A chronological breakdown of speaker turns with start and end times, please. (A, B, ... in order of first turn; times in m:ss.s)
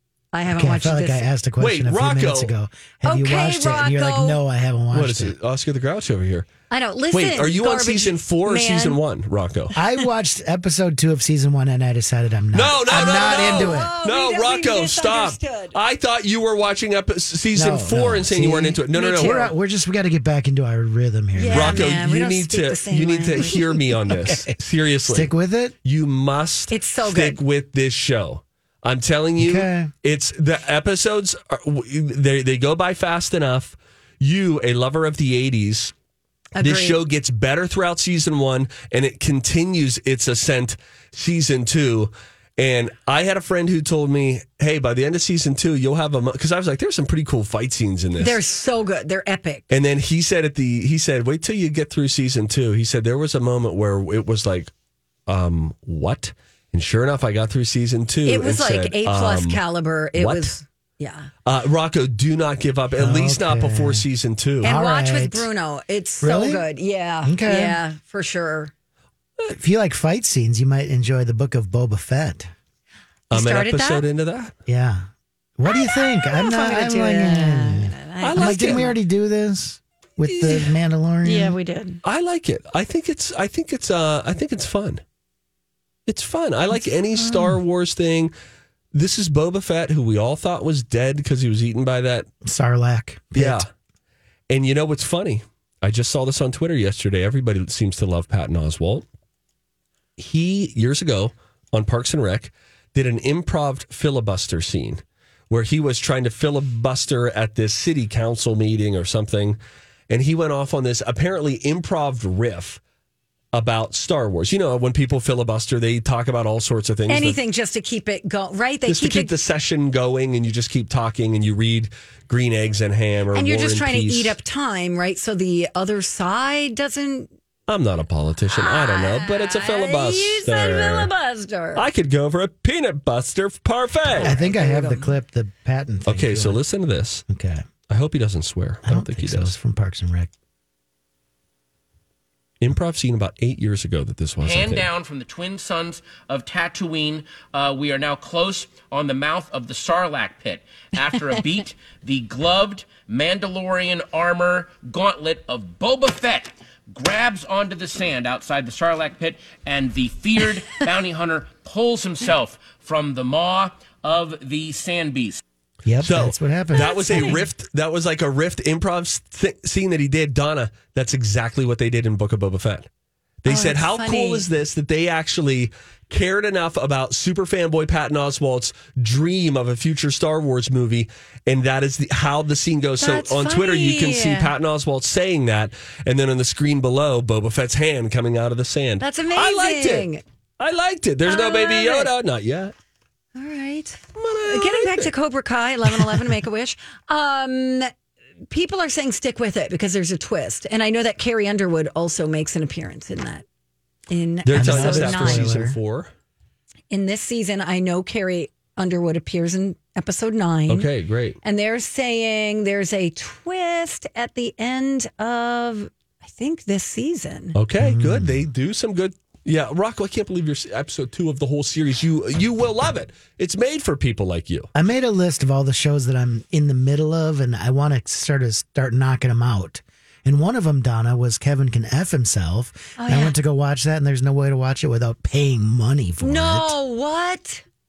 0:00.3-0:01.3 A
0:00.5-0:05.4 B
0:01.6-0:02.5 C
0:03.0-0:04.4 A
0:04.9-0:06.5 C
0:06.7-0:09.0 A
0:07.1-0:09.7 C
0:09.7-0:13.9 B
0:12.5-0:19.5 C
0:12.9-0:15.8 A
0:17.5-0:21.9 B
0:18.9-0:19.5 A
0:21.4-0:23.6 A
0:21.5-0:35.9 C
0:23.4-0:24.5 B
0:25.1-0:25.8 B
0:26.7-0:27.4 A
0:29.4-0:29.9 B
0:36.6-0:37.0 A
0:36.6-0:48.4 C
0:48.2-0:49.7 A
0:49.7-0:54.7 C
0:55.3-0:59.6 C
0:58.3-1:01.3 A
1:00.2-1:00.6 C
1:01.4-1:04.7 C
1:03.0-1:04.1 B
1:04.6-1:05.5 B
1:04.6-1:08.7 A
1:06.2-1:06.6 B
1:07.2-1:07.8 B
1:09.5-1:12.5 B
1:13.3-1:14.1 A
1:13.3-1:14.5 C
1:14.7-1:15.1 B
1:15.6-1:21.6 B
1:15.7-1:19.0 A
1:18.2-1:18.9 C
1:20.3-1:20.7 C
1:21.2-1:22.0 A
1:22.0-1:25.0 C
1:26.1-1:28.3 C
1:27.1-1:27.6 B
1:28.9-1:32.3 C
1:32.4-1:33.7 B
1:33.4-1:33.7 C
1:34.5-1:39.0 C
1:40.2-1:52.8 C
1:53.5-1:57.4 C
1:57.1-1:59.3 A
1:58.9-2:04.4 C
2:03.3-2:07.3 A
2:07.7-2:11.1 C
2:08.5-2:11.9 A
2:11.8-2:14.4 C
2:14.1-2:15.1 A
2:14.2-2:16.6 B
2:16.1-2:17.2 C
2:17.3-2:17.6 B
2:17.9-2:19.5 C
2:18.8-2:20.3 B
2:22.6-2:24.9 C
2:24.4-2:45.4 D
2:45.8-2:47.4 B
2:46.0-2:52.9 C
2:46.7-2:47.4 A
2:53.4-3:12.7 C
2:53.5-2:54.5 A
3:03.0-3:04.5 A
3:09.0-3:10.2 A
3:11.2-3:12.1 A
3:13.4-3:17.9 A
3:14.2-3:15.1 C
3:18.5-3:23.4 A
3:24.1-3:25.5 A
3:24.4-3:26.1 C
3:24.5-3:25.8 B
3:26.9-3:30.9 A
3:30.7-3:31.4 C
3:31.4-3:37.6 A
3:37.6-3:44.7 C
3:37.8-3:38.5 B
3:44.7-3:56.8 B
3:53.0-3:53.4 A
3:56.2-3:57.6 A